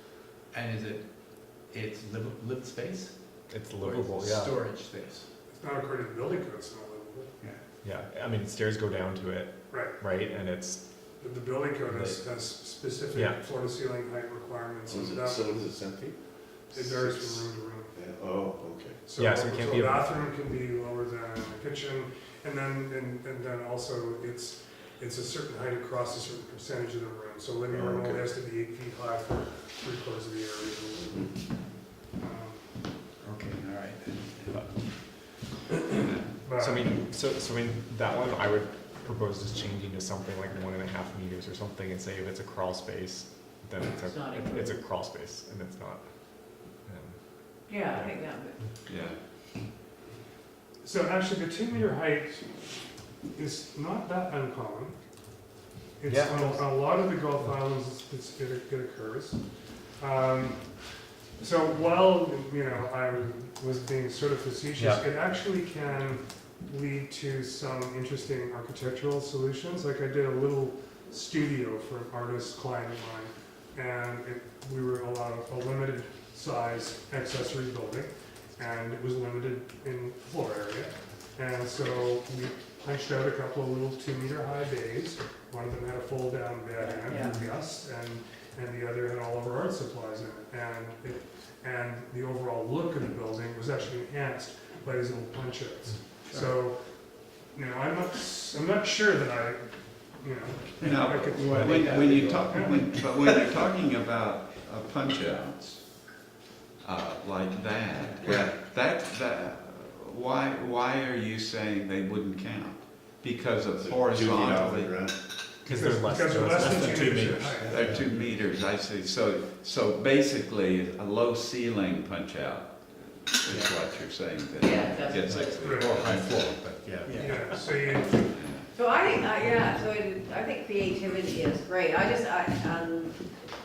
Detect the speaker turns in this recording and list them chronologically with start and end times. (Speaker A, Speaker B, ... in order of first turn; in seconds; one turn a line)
Speaker A: 0.5-5.3
Speaker B: 3.5-4.6
Speaker C: 5.5-7.3
Speaker B: 7.8-11.1
Speaker C: 9.7-9.9
Speaker C: 11.2-15.5
Speaker B: 11.9-12.4
Speaker B: 13.1-13.4
Speaker D: 14.9-19.0
Speaker C: 16.7-17.9
Speaker C: 19.0-31.6
Speaker B: 19.2-20.1
Speaker D: 27.7-28.3
Speaker C: 32.1-32.8
Speaker A: 33.2-34.7
Speaker C: 36.4-36.9
Speaker B: 36.6-48.1
Speaker E: 43.8-44.8
Speaker E: 47.7-48.6
Speaker F: 48.9-49.2
Speaker C: 50.8-55.2
Speaker C: 56.0-103.1
Speaker B: 56.1-57.5
Speaker B: 64.8-65.0
Speaker E: 86.8-87.4
Speaker F: 100.8-106.2
Speaker A: 101.4-102.9
Speaker F: 106.8-115.1
Speaker D: 108.2-108.5
Speaker D: 113.8-115.2
Speaker C: 115.6-117.8
Speaker B: 115.6-117.5
Speaker A: 116.6-117.9
Speaker D: 117.5-117.9
Speaker F: 117.6-126.9
Speaker E: 124.6-125.8
Speaker A: 125.2-127.9
Speaker C: 125.6-126.0
Speaker B: 126.3-126.7
Speaker C: 127.1-128.3
Speaker F: 128.3-128.7
Speaker E: 128.7-133.4